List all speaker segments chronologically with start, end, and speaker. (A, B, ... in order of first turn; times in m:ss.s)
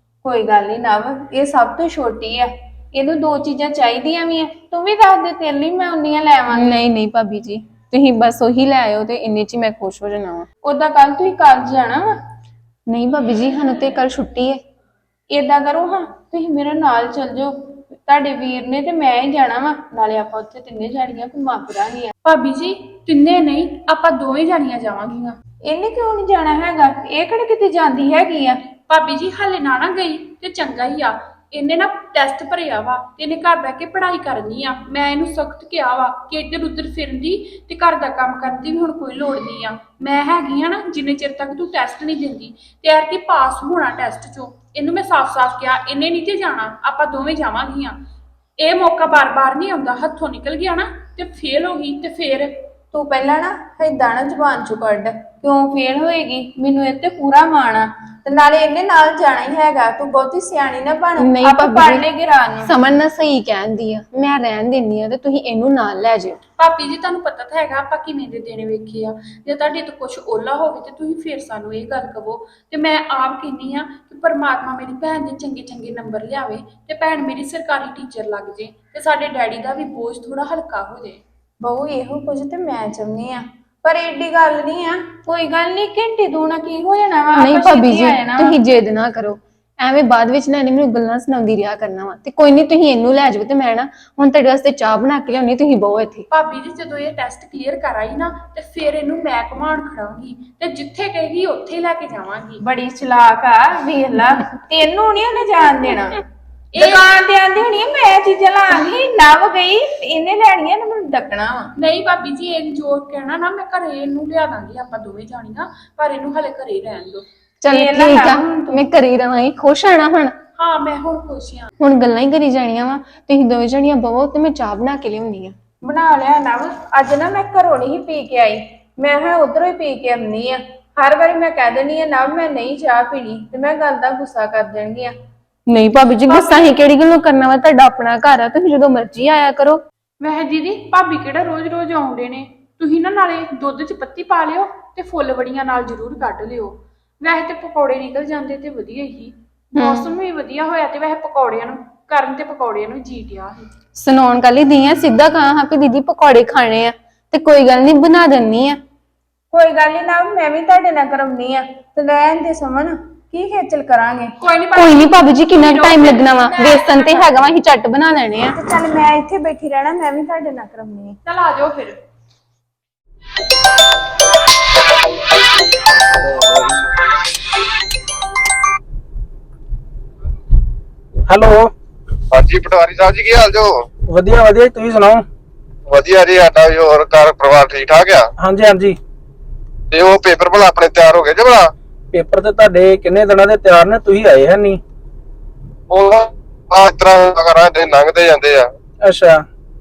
0:00.2-0:06.8 A
0:06.5-0:10.5 B
0:10.6-0:12.1 A
0:12.9-0:14.6 B
0:15.3-0:22.1 A
0:22.2-0:25.4 C
0:25.6-0:28.6 A
0:28.9-0:48.0 C
0:48.6-0:52.6 C
0:52.9-1:02.7 A
1:01.2-1:02.1 B
1:02.6-1:06.4 B
1:06.6-1:21.2 C
1:21.6-1:28.5 A
1:27.4-1:36.3 B
1:36.3-1:42.6 C
1:42.6-1:46.2 A
1:46.7-1:47.1 C
1:46.8-1:51.7 A
1:51.8-1:57.2 C
1:57.6-2:00.4 B
1:57.7-1:58.8 A
2:00.6-2:01.7 C
2:01.8-2:05.6 B
2:05.8-2:15.1 A
2:15.7-2:19.8 B
2:16.3-2:16.8 C
2:20.2-2:33.7 C
2:29.8-2:30.1 B
2:34.0-2:38.8 B
2:39.5-2:44.3 A
2:44.4-2:47.4 C
2:44.8-2:48.6 B
2:48.6-2:51.2 A
2:51.2-2:52.0 C
3:01.3-3:01.7 D
3:02.3-3:03.8 E
3:04.1-3:05.2 D
3:05.9-3:08.3 E
3:08.4-3:09.0 D
3:09.9-3:11.7 E
3:12.1-3:14.8 D
3:15.9-3:18.7 E
3:19.0-3:19.4 D